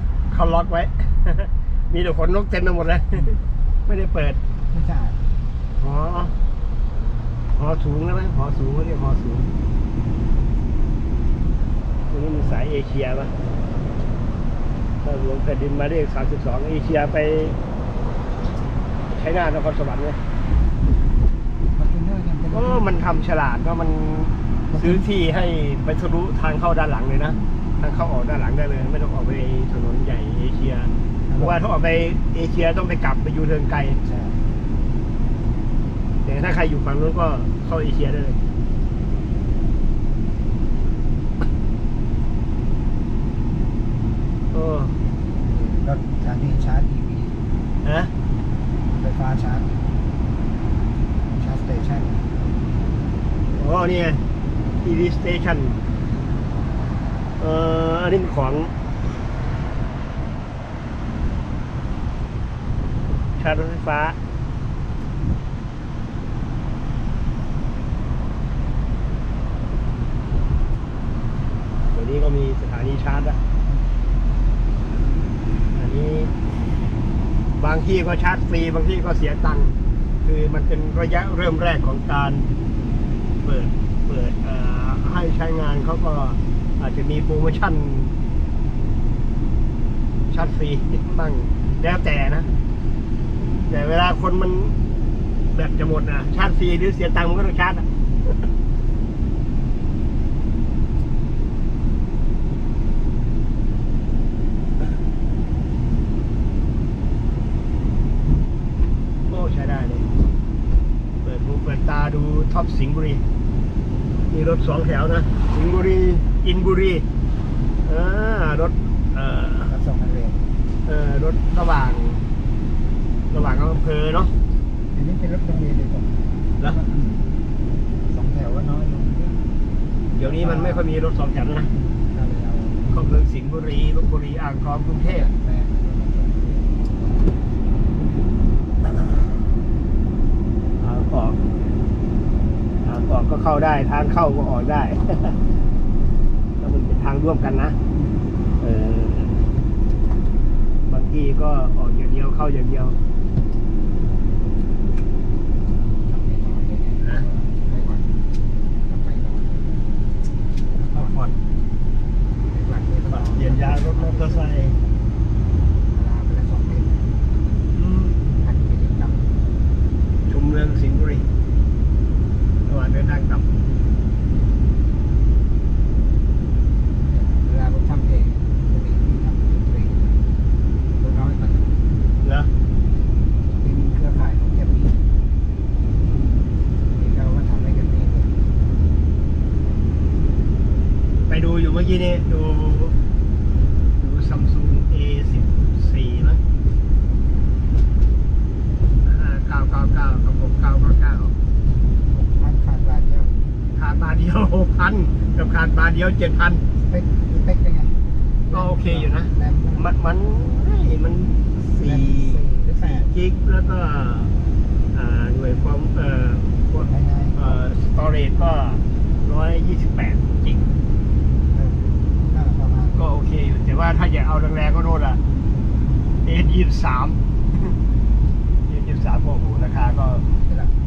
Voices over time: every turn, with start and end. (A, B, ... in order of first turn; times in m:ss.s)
0:00.3-0:04.4 A
0:04.7-0:05.2 B
0:05.8-0:06.3 A
0:07.6-0:09.5 A
0:12.1-0:13.3 A
0:15.0-0:17.6 A
0:19.1-0:20.2 A
0:21.7-0:23.0 B
0:22.5-0:34.0 A
0:24.7-0:25.0 B
0:31.3-0:31.5 B
0:34.0-0:34.4 B
0:36.2-0:38.4 A
0:44.5-0:45.0 A
0:45.4-0:47.4 B
0:47.8-0:48.1 A
0:48.9-0:49.8 B
0:51.3-0:52.3 B
0:53.6-0:54.2 A
0:54.8-0:55.8 A
0:57.4-0:58.7 A
1:03.4-1:04.2 A
1:11.9-1:13.4 A
1:15.7-1:16.3 A
1:17.6-1:22.5 A
1:23.4-1:28.1 A
1:30.3-1:32.5 A
1:33.7-1:34.7 A
1:35.5-1:38.4 A
1:49.3-1:50.0 A
1:51.2-1:53.2 A
1:54.3-1:57.0 A
1:57.8-1:59.7 A
1:59.6-2:00.5 B
2:00.8-2:02.2 A
2:03.3-2:04.3 A
2:04.9-2:07.3 B
2:08.0-2:09.4 B
2:10.1-2:11.7 A
2:10.2-2:10.8 B
2:11.7-2:13.0 B
2:12.9-2:15.3 A
2:15.0-2:16.7 B
2:20.8-2:21.4 A
2:22.8-2:25.4 A
2:26.6-2:27.8 A
2:28.6-2:29.3 A
2:30.9-2:33.0 A
2:36.0-2:38.2 B
2:38.8-2:39.8 B
2:40.8-2:41.3 B
2:40.9-2:41.3 A
2:42.5-2:44.5 B
2:43.1-2:44.8 A
2:45.9-2:47.0 B
2:47.7-2:48.2 A
2:48.4-2:49.3 B
2:50.3-2:51.2 A
2:52.7-2:53.4 A
2:57.1-3:00.2 B
3:00.9-3:01.8 B
3:02.2-3:02.5 A
3:03.6-3:05.0 B
3:06.8-3:08.3 B
3:11.3-3:13.0 A
3:14.0-3:16.4 A
3:19.0-3:21.3 A
3:22.0-3:23.3 B
3:23.8-3:26.6 A
3:26.8-3:28.0 B
3:28.5-3:29.8 B
3:28.5-3:34.3 A
3:31.8-3:33.1 B
3:34.9-3:40.6 A
3:36.7-3:37.6 B
3:41.5-3:43.0 B
3:42.9-3:45.2 A
3:46.2-3:47.8 A
3:48.7-3:50.2 A
3:50.4-3:50.7 B